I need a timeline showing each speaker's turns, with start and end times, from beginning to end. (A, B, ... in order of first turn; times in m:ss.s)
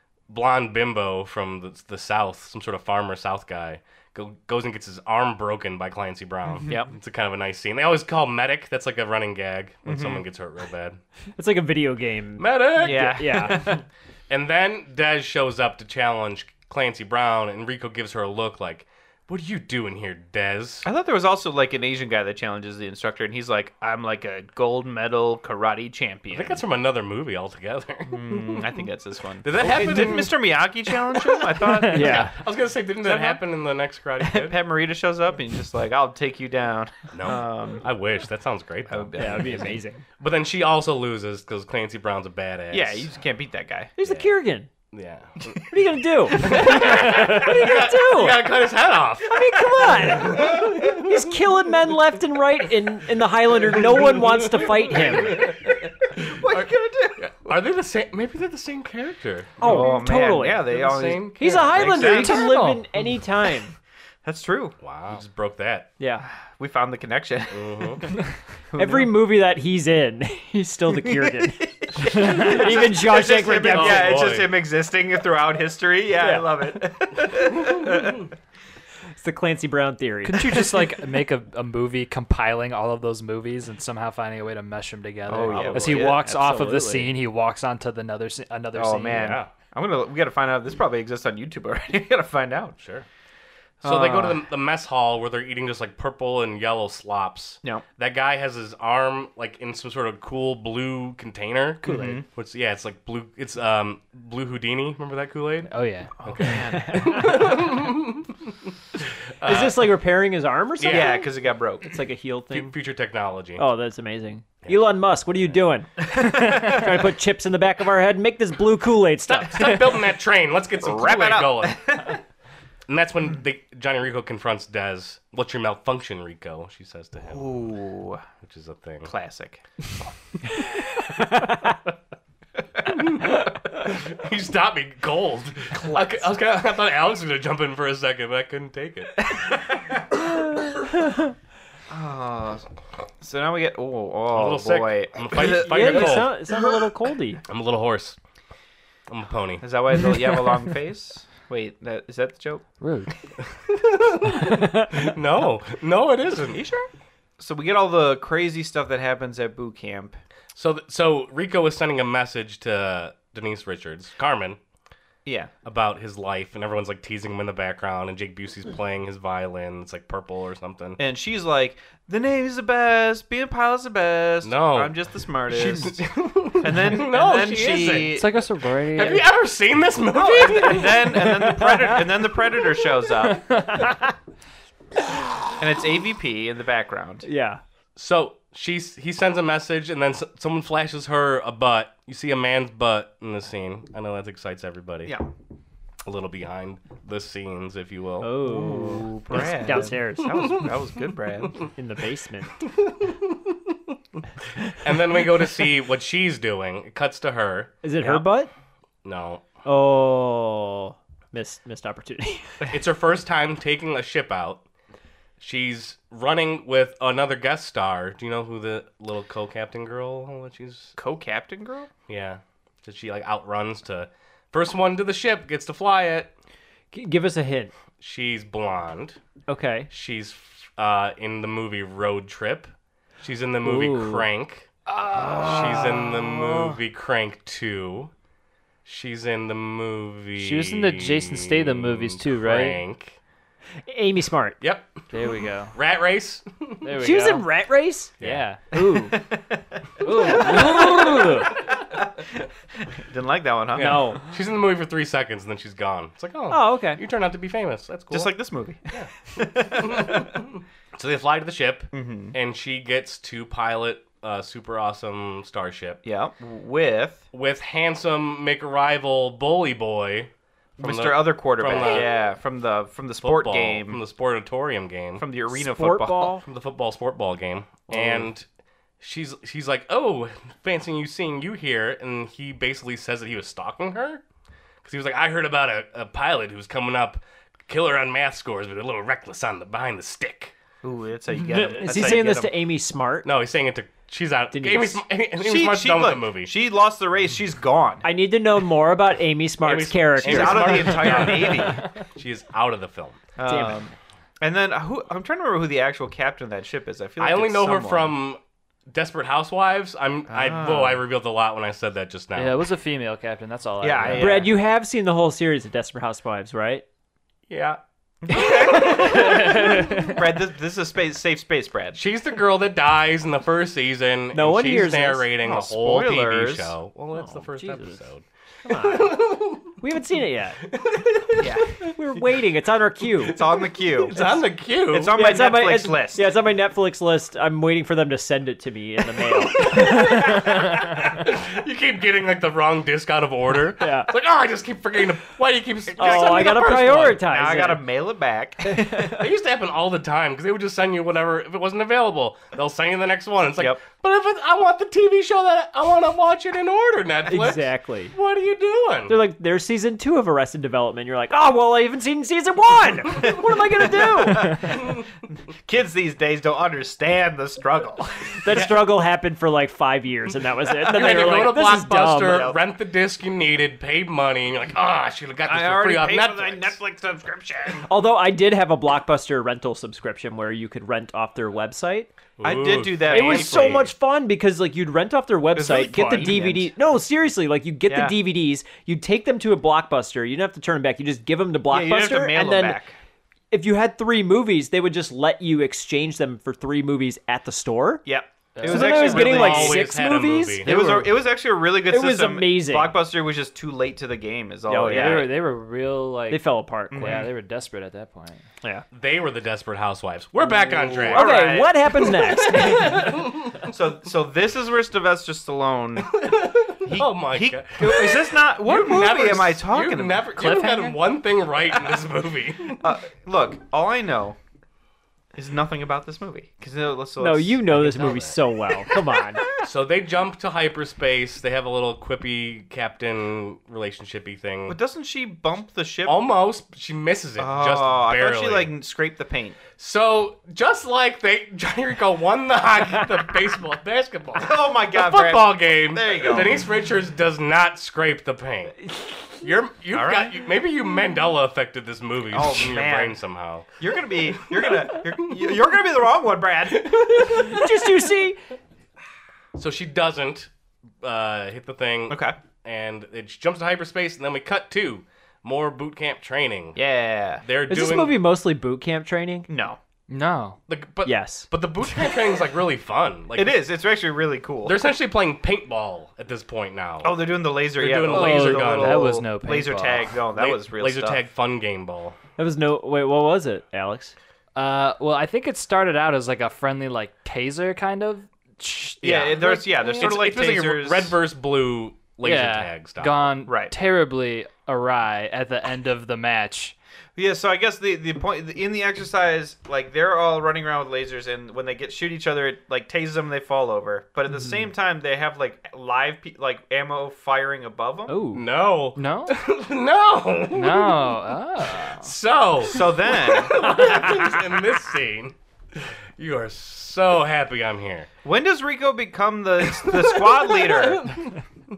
0:00.3-0:11.0 A
0:06.6-0:06.9 B
0:09.8-0:10.2 B
0:11.4-0:13.8 C
0:12.4-0:13.7 A
0:12.8-0:13.8 B
0:14.3-0:20.9 A
0:20.8-0:26.6 B
0:26.3-0:28.7 A
0:28.1-0:32.4 B
0:29.4-0:34.6 A
0:31.8-0:32.3 C
0:33.0-0:33.4 B
0:34.2-0:37.8 B
0:37.1-0:43.1 A
0:38.9-0:39.8 B
0:39.2-0:40.0 C
0:42.7-0:43.9 B
0:44.0-0:44.7 C
0:44.9-0:45.6 A
0:45.7-0:48.5 C
0:46.3-0:51.1 A
0:46.5-0:46.8 B
0:49.2-0:55.4 C
0:53.7-0:56.6 A
0:53.8-0:54.2 B
0:54.9-0:57.5 B
0:57.2-0:59.9 A
0:59.6-1:03.7 C
0:59.6-1:02.6 B
1:00.6-1:02.2 A
1:02.0-1:02.8 D
1:04.2-1:04.8 B
1:04.8-1:05.9 A
1:06.0-1:06.2 C
1:06.4-1:08.2 B
1:07.5-1:08.0 A
1:08.7-1:09.1 B
1:08.8-1:14.2 C
1:11.0-1:18.2 B
1:12.0-1:12.4 D
1:13.7-1:14.5 A
1:16.2-1:16.7 C
1:17.6-1:18.2 A
1:19.2-1:20.6 C
1:20.2-1:29.3 D
1:25.3-1:26.4 B
1:25.5-1:26.0 A
1:25.6-1:27.1 C
1:28.7-1:32.8 B
1:29.2-1:29.5 A
1:32.8-1:33.0 A
1:33.8-1:34.4 B
1:33.8-1:45.7 A
1:41.8-1:42.2 B
1:45.7-1:46.1 D
1:46.2-1:47.4 B
1:46.2-1:48.5 A
1:46.5-1:47.5 C
1:49.4-1:49.7 A
1:49.4-1:51.3 C
1:50.8-1:51.2 A
1:50.8-1:52.0 B
1:51.8-1:52.7 C
1:52.5-1:53.6 A
1:53.6-1:59.8 C
1:56.1-1:56.8 B
1:59.2-2:02.0 A
2:00.8-2:02.2 B
2:02.9-2:07.5 A
2:07.3-2:08.2 B
2:08.4-2:09.1 A
2:09.0-2:09.6 B
2:11.2-2:11.7 C
2:12.9-2:19.4 A
2:15.8-2:16.1 B
2:19.3-2:20.0 B
2:21.9-2:22.7 B
2:23.2-2:26.8 B
2:24.3-2:26.4 A
2:25.4-2:27.4 C
2:27.5-2:28.2 A
2:29.1-2:29.6 A
2:29.6-2:32.7 B
2:32.8-2:33.1 D
2:33.7-2:36.6 A
2:36.5-2:36.9 B
2:37.4-2:40.2 B
2:40.5-2:44.6 A
2:45.2-2:45.5 B
2:45.6-2:51.0 A
2:51.0-2:56.0 B
2:54.4-2:58.2 A
2:56.6-2:58.4 B
2:58.1-2:59.3 D
2:58.9-3:00.9 A
3:00.1-3:03.6 B
3:00.4-3:02.4 C
3:03.5-3:04.1 C
3:05.6-3:07.3 B
3:07.2-3:07.6 C
3:08.0-3:15.1 A
3:16.0-3:18.4 A
3:18.2-3:20.7 C
3:18.4-3:21.6 B
3:19.3-3:20.7 A
3:21.8-3:22.6 C
3:22.7-3:23.2 A
3:24.8-3:28.2 A
3:27.8-3:28.5 C
3:29.0-3:29.4 A
3:29.6-3:32.6 C
3:32.7-3:34.6 A
3:35.4-3:40.9 A
3:41.0-3:41.9 B
3:42.1-3:46.3 A
3:46.9-3:47.7 C
3:48.0-3:49.2 A
3:49.5-3:49.9 C
3:49.9-3:54.7 A
3:53.6-3:54.2 C
3:54.9-3:56.4 D
3:55.4-3:58.1 A
3:58.8-4:03.2 A
4:00.4-4:02.8 D
4:03.9-4:04.6 C
4:04.6-4:05.0 A
4:05.1-4:05.7 D
4:05.7-4:06.9 A
4:06.8-4:07.4 D
4:07.0-4:08.1 C
4:08.2-4:08.4 A
4:08.2-4:08.8 D
4:08.7-4:09.2 C
4:08.7-4:12.0 B
4:10.0-4:11.6 C
4:12.9-4:14.1 B
4:13.7-4:18.3 A
4:13.8-4:14.2 C
4:16.5-4:17.0 C
4:18.1-4:20.3 B
4:18.9-4:26.0 A
4:21.9-4:22.3 B
4:26.0-4:27.2 B
4:27.3-4:32.1 A
4:30.8-4:34.0 B
4:33.2-4:35.2 A
4:35.2-4:36.4 B
4:35.5-4:36.4 C
4:36.4-4:38.4 A
4:37.9-4:38.2 B
4:39.0-4:44.2 A
4:44.8-4:50.5 A
4:50.8-4:52.6 B
4:51.5-4:53.3 C
4:51.9-4:52.3 A
4:53.2-4:56.5 A
4:54.5-4:55.0 C
4:55.4-4:58.1 B
4:58.0-5:01.6 C
4:59.6-5:03.2 A
5:00.2-5:01.8 B
5:03.4-5:08.1 B
5:03.4-5:03.8 C
5:07.2-5:12.6 A
5:10.3-5:11.0 B
5:12.3-5:14.4 D
5:13.8-5:14.6 B
5:14.2-5:16.8 C
5:17.5-5:17.8 A
5:18.2-5:22.0 B
5:19.4-5:20.1 D
5:21.9-5:29.7 A
5:24.3-5:25.2 C
5:25.4-5:26.7 B
5:27.1-5:28.0 C
5:28.6-5:29.2 C
5:29.8-5:30.6 C
5:30.7-5:31.7 A
5:31.4-5:31.7 B
5:31.9-5:33.4 C
5:33.2-5:35.2 A
5:33.3-5:34.2 B
5:34.9-5:36.3 B
5:35.1-5:40.6 C
5:39.6-5:47.2 A
5:43.8-5:44.1 C
5:45.9-5:49.3 B
5:46.0-5:47.8 C
5:48.7-5:49.0 C
5:49.2-5:59.2 A
5:57.3-5:58.1 C
5:59.1-6:04.8 C
6:03.8-6:05.0 B
6:04.5-6:05.0 A
6:05.6-6:08.5 B
6:08.4-6:12.5 C
6:10.8-6:16.7 A
6:12.2-6:12.6 B
6:15.5-6:17.9 B
6:17.9-6:22.1 C
6:22.4-6:23.9 A
6:22.4-6:23.9 B
6:23.1-6:32.8 C
6:25.5-6:26.7 B
6:27.9-6:28.2 B
6:31.7-6:33.0 B
6:33.5-6:38.0 C
6:38.0-6:39.9 B
6:38.6-6:39.1 D
6:38.6-6:41.1 C
6:38.9-6:40.8 A
6:40.6-6:45.3 B
6:41.9-6:42.9 C
6:44.7-6:45.4 C
6:44.9-6:48.4 D
6:46.3-6:47.2 C
6:46.9-6:47.3 B
6:48.9-6:51.4 A
6:51.0-6:52.4 B
6:51.1-6:53.0 C
6:52.3-6:53.4 A
6:53.7-6:56.2 B
6:56.2-7:02.9 A
6:56.8-7:00.5 B
7:00.4-7:01.0 D
7:02.8-7:04.4 B
7:05.3-7:07.8 B
7:07.2-7:09.5 C
7:07.7-7:08.4 A
7:09.6-7:14.8 A
7:14.7-7:16.2 B
7:16.0-7:18.7 A
7:17.4-7:19.6 B
7:19.8-7:28.8 A
7:24.4-7:26.7 B
7:29.4-7:33.6 A
7:29.9-7:30.4 B
7:32.3-7:33.2 B
7:33.8-7:37.4 B
7:34.5-7:35.3 A
7:36.9-7:37.6 A
7:37.3-7:38.4 C
7:39.6-7:40.5 A
7:41.0-7:46.8 A
7:42.1-7:42.4 B
7:46.7-7:47.4 B
7:47.4-7:48.2 A
7:47.7-7:49.5 C
7:49.5-7:49.8 B
7:50.1-7:50.6 D
7:50.7-7:53.5 A
7:51.0-7:51.5 C
7:53.3-7:54.8 B
7:54.6-7:59.2 A
7:57.0-8:01.2 B
7:58.1-8:00.1 D
8:00.3-8:02.2 A
8:02.4-8:04.1 C
8:04.6-8:09.7 D
8:09.0-8:11.2 B
8:09.0-8:13.3 A
8:12.2-8:16.7 D
8:13.5-8:13.7 B
8:17.2-8:28.2 B
8:28.1-8:28.4 C
8:28.3-8:31.2 A
8:28.9-8:29.3 D
8:30.5-8:32.1 D
8:32.0-8:38.1 A
8:32.6-8:33.9 B
8:38.2-8:41.1 B
8:39.7-8:41.3 A